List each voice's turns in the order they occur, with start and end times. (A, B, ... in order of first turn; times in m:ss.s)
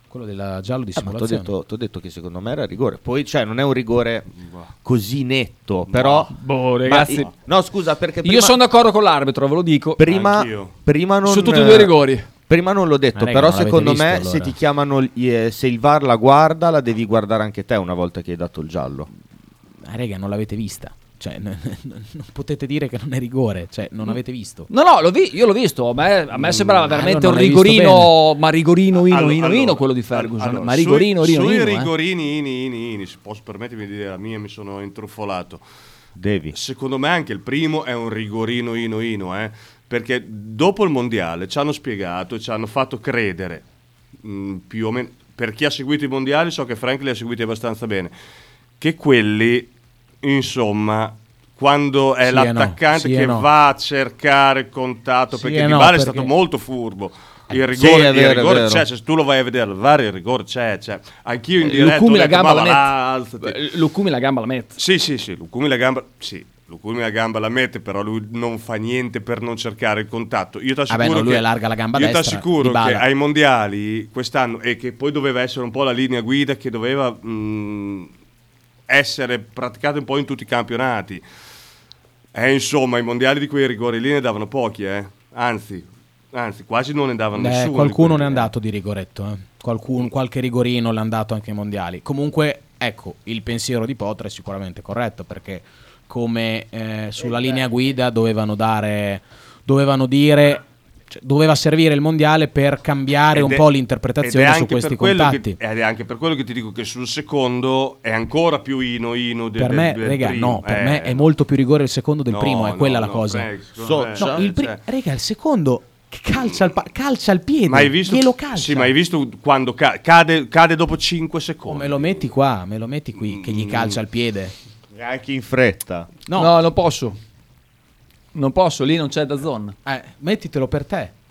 0:00.1-0:01.5 A
0:01.0-0:04.3 B
0:04.8-0:06.3 B
0:05.9-0:06.3 C
0:06.3-0:07.3 D
0:06.9-0:08.6 B
0:07.0-0:07.3 C
0:08.2-0:10.0 D
0:10.0-0:11.9 B
0:10.1-0:10.7 C
0:11.2-0:12.3 D
0:12.5-0:19.1 B
0:13.2-0:14.5 A
0:19.8-0:24.7 A
0:24.7-0:31.9 D
0:26.3-0:28.1 A
0:29.0-0:35.6 C
0:36.2-0:36.6 B
0:36.5-0:43.6 C
0:44.2-0:48.1 C
0:48.8-0:49.7 C
0:50.2-1:03.6 C
0:52.2-0:53.5 A
0:55.3-0:56.3 A
0:57.7-0:58.8 B
1:01.6-1:04.8 D
1:04.8-1:18.1 C
1:10.9-1:13.0 A
1:18.9-1:21.2 C
1:22.3-1:28.5 C
1:27.3-1:45.6 A
1:43.3-1:43.7 C
1:44.2-1:51.3 C
1:49.6-1:53.5 A
1:52.3-1:54.8 C
1:53.8-1:54.5 B
1:54.2-1:58.9 A
1:57.7-2:02.2 C
2:01.7-2:04.5 A
2:03.2-2:04.0 C
2:04.9-2:06.1 B
2:06.3-2:06.6 A
2:06.3-2:07.2 D
2:08.3-2:09.8 D
2:09.9-2:11.1 A